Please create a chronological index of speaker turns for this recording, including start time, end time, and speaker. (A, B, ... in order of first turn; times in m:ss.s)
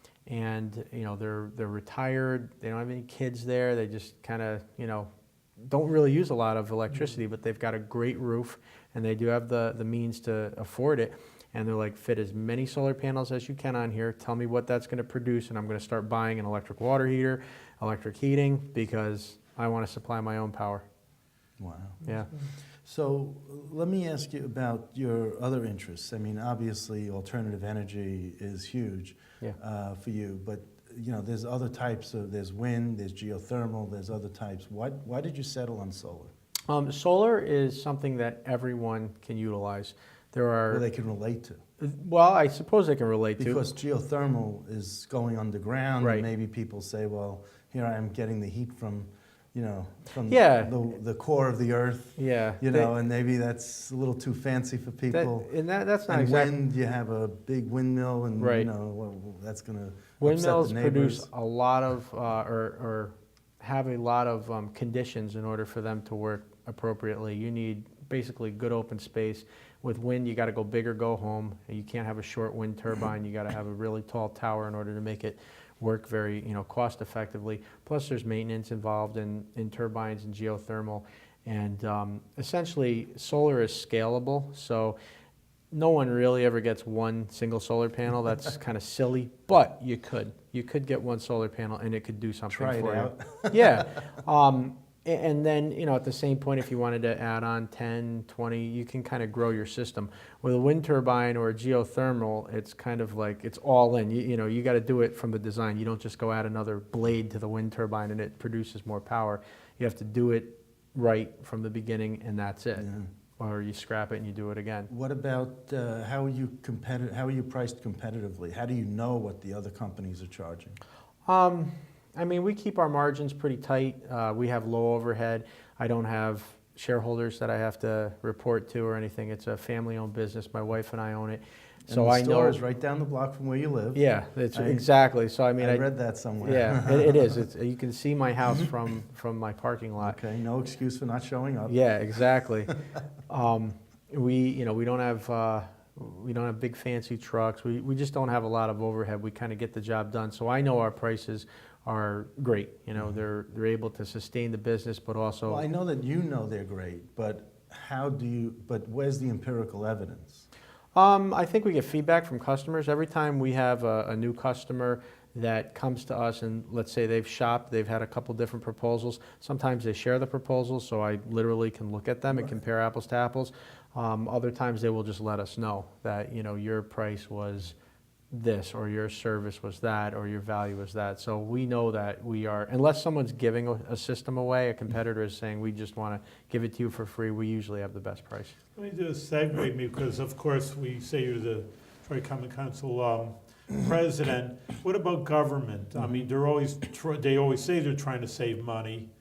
0:00.3-0:05.1 A
0:05.7-0:20.8 A
0:06.9-0:07.2 B
0:21.6-0:22.0 C
0:22.8-0:36.3 C
0:36.7-0:40.8 A
0:40.7-0:41.6 C
0:41.8-0:43.7 A
0:43.4-0:55.5 C
0:46.0-0:46.3 A
0:50.3-0:50.7 A
0:52.2-0:52.9 A
0:55.1-0:56.5 A
0:56.1-1:01.3 C
0:58.4-0:58.7 A
1:00.2-1:25.0 A
1:25.7-1:54.9 A
1:32.5-1:33.8 C
1:52.8-1:53.1 C
1:54.9-2:00.8 C
2:01.3-2:12.6 A
2:11.9-2:14.0 C
2:13.9-2:20.2 A
2:14.5-2:14.9 C
2:15.6-2:17.4 C
2:20.0-2:21.8 C
2:21.7-2:22.7 A
2:23.3-2:35.6 A
2:35.5-2:40.5 C
2:41.0-2:57.8 A
2:58.3-3:08.6 A
3:08.8-3:19.1 B